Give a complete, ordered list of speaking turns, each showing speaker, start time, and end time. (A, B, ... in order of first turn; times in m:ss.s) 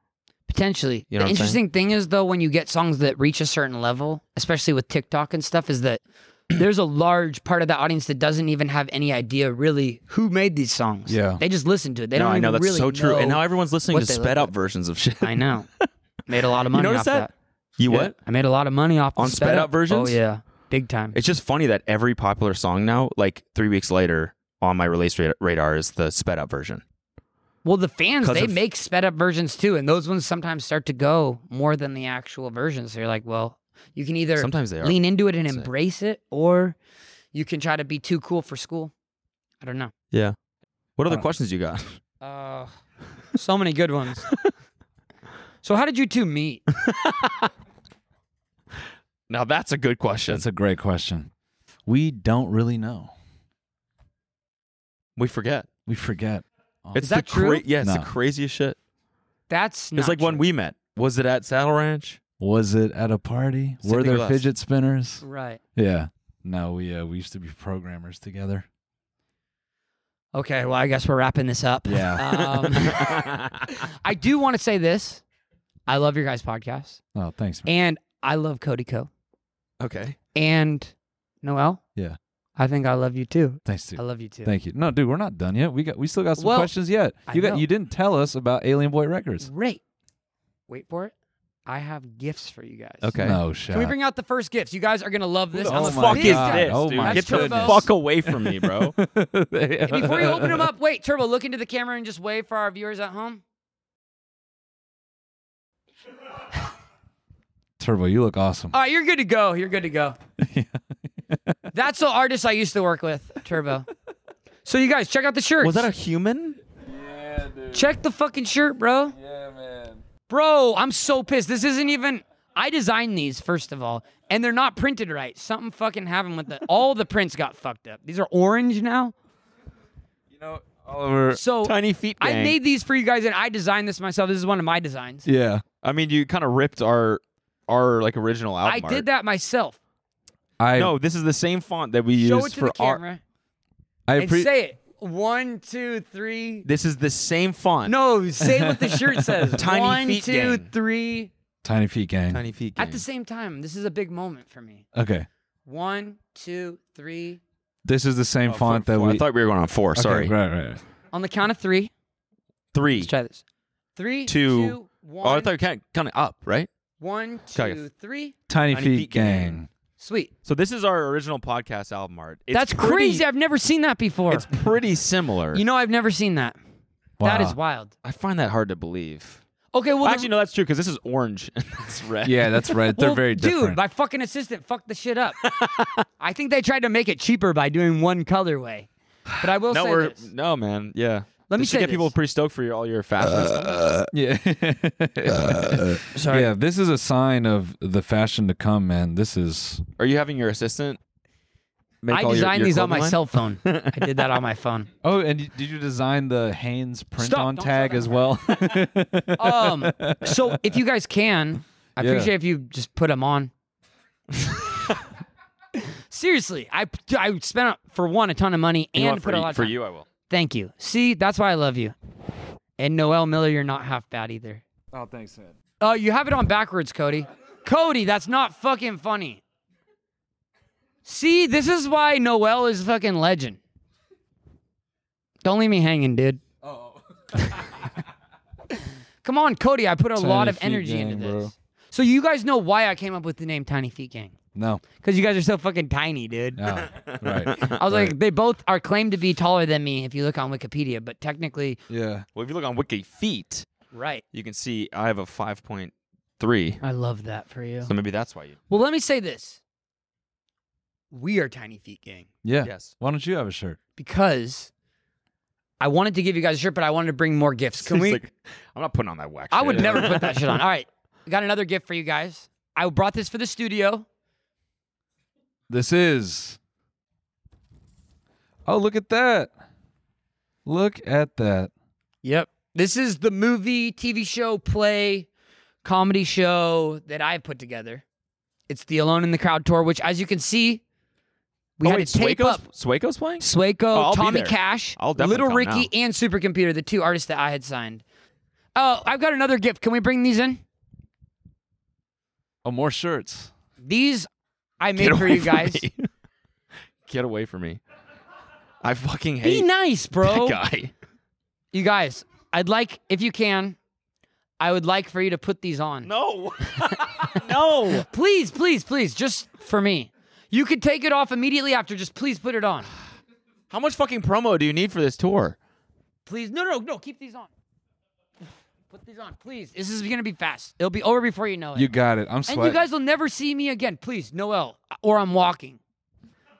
0:00.5-0:14.5 A
0:01.1-0:01.6 B
0:11.1-0:11.4 C
0:12.1-0:15.9 B
0:15.2-0:15.7 A
0:16.3-0:17.3 A
0:16.6-0:18.1 B
0:17.9-0:21.2 A
0:19.2-0:20.2 B
0:21.1-0:26.8 B
0:27.6-0:36.8 A
0:28.2-0:28.6 B
0:34.4-0:35.7 B
0:37.3-0:38.9 A
0:39.6-0:39.9 A
0:41.0-0:42.0 B
0:42.2-0:42.7 A
0:43.3-0:44.3 A
0:45.6-0:46.6 A
0:46.8-0:47.5 B
0:49.3-0:50.4 B
0:50.3-0:51.3 C
0:51.8-0:53.1 C
0:55.2-0:55.7 B
0:55.9-0:57.1 C
0:57.0-0:58.8 B
0:57.0-0:57.6 A
0:57.8-0:58.1 C
0:59.5-1:00.4 A
1:00.0-1:02.2 B
1:02.4-1:05.2 C
1:03.8-1:04.4 B
1:05.2-1:05.6 A
1:05.8-1:08.6 C
1:10.3-1:13.1 A
1:11.8-1:12.2 C
1:12.7-1:13.7 B
1:14.0-1:15.2 A
1:15.9-1:17.0 A
1:17.1-1:17.7 C
1:17.6-1:19.1 A
1:19.8-1:20.2 B
1:20.3-1:21.8 A
1:22.6-1:24.5 A
1:23.6-1:29.5 C
1:26.4-1:26.7 A
1:27.2-1:27.6 A
1:29.4-1:29.8 A
1:30.7-1:31.1 A
1:31.6-1:33.1 A
1:33.0-1:33.4 B
1:33.2-1:33.9 C
1:33.7-1:37.9 A
1:35.6-1:39.0 B
1:35.6-1:40.7 C
1:39.8-1:43.4 A
1:47.8-1:48.7 C
1:48.7-1:50.2 A
1:50.4-1:50.8 C
1:51.7-1:53.9 A
1:54.6-1:55.9 A
1:55.6-1:56.6 B
1:56.9-1:57.8 C
1:57.7-1:59.1 A
1:59.2-2:00.0 C
2:00.3-2:09.1 A
2:10.3-2:11.4 C
2:11.3-2:15.3 A
2:11.6-2:12.6 B
2:15.2-2:15.6 C
2:15.8-2:19.0 B
2:18.6-2:19.8 A
2:20.6-2:20.9 C
2:20.8-2:23.0 B
2:22.2-2:23.2 A
2:24.1-2:24.5 C
2:24.2-2:26.7 A
2:26.6-2:28.0 B
2:27.8-2:31.3 A
2:28.4-2:29.6 C
2:29.6-2:30.7 B
2:31.6-2:32.4 C
2:32.3-2:33.0 B
2:32.8-2:34.8 A
2:34.9-2:35.3 C
2:35.6-2:37.4 A
2:37.8-2:39.2 C
2:38.5-2:40.3 B
2:39.9-2:40.8 C
2:41.1-2:41.9 A
2:42.7-2:43.1 B
2:43.0-2:43.4 A
2:44.0-2:45.5 A
2:44.3-2:46.7 B
2:47.0-2:48.3 A
2:47.5-2:47.8 B
2:48.5-2:49.7 C
2:48.7-2:49.6 B
2:50.0-2:50.3 A
2:50.4-2:53.2 B
2:52.5-2:54.5 A
2:54.3-2:55.6 B
2:55.5-2:56.6 A
2:57.2-2:57.6 C
2:57.2-2:57.9 A
2:58.0-2:59.4 B
2:59.7-3:00.3 A
3:00.0-3:02.4 B
3:02.2-3:03.8 C
3:03.0-3:05.4 A
3:05.4-3:06.0 B
3:06.2-3:10.3 A
3:09.7-3:14.0 B
3:11.5-3:12.1 A
3:14.1-3:19.8 C
3:16.1-3:16.5 A
3:20.0-3:21.0 B
3:22.0-3:24.3 B
3:22.1-3:24.9 A
3:25.0-3:30.6 C
3:27.2-3:28.1 A
3:29.4-3:33.5 A
3:32.0-3:32.3 C
3:35.8-3:39.7 A
3:39.0-3:40.0 B
3:40.3-3:41.9 A
3:42.8-3:44.6 A
3:44.9-3:45.5 C
3:45.8-3:49.4 A
3:51.0-3:53.6 A
3:55.4-3:56.4 A
3:59.2-4:04.3 A
4:00.2-4:01.5 C
4:04.5-4:04.8 C
4:05.0-4:06.6 A
4:06.6-4:08.1 C
4:06.9-4:07.8 B
4:07.6-4:11.8 A
4:11.9-4:12.2 C
4:12.3-4:13.7 B
4:13.9-4:14.2 A
4:14.3-4:16.8 B
4:16.8-4:17.9 A
4:17.8-4:18.6 B
4:18.7-4:19.6 A
4:21.1-4:22.3 A
4:22.4-4:23.8 C
4:22.6-4:23.0 B
4:24.0-4:24.7 A
4:25.8-4:28.2 A
4:27.8-4:30.6 B
4:29.5-4:34.0 A
4:35.7-4:36.6 C
4:38.6-4:39.5 C
4:40.6-4:41.7 C
4:42.2-4:45.3 A
4:45.8-4:48.0 A
4:48.7-4:50.8 A
4:51.8-4:52.6 A
4:51.8-4:55.9 B
4:53.4-4:58.0 A
4:58.8-5:00.6 A
5:02.6-5:03.5 C
5:03.8-5:04.3 A
5:04.8-5:05.8 A
5:05.0-5:06.1 B
5:07.1-5:07.8 B
5:08.8-5:09.7 B
5:09.4-5:10.6 A
5:10.2-5:10.9 B
5:11.7-5:13.8 A
5:14.6-5:16.1 A
5:16.0-5:18.1 B
5:17.9-5:22.9 A
5:23.7-5:25.6 B
5:26.2-5:27.5 A
5:28.9-5:31.9 A
5:31.7-5:32.8 C
5:32.4-5:35.8 A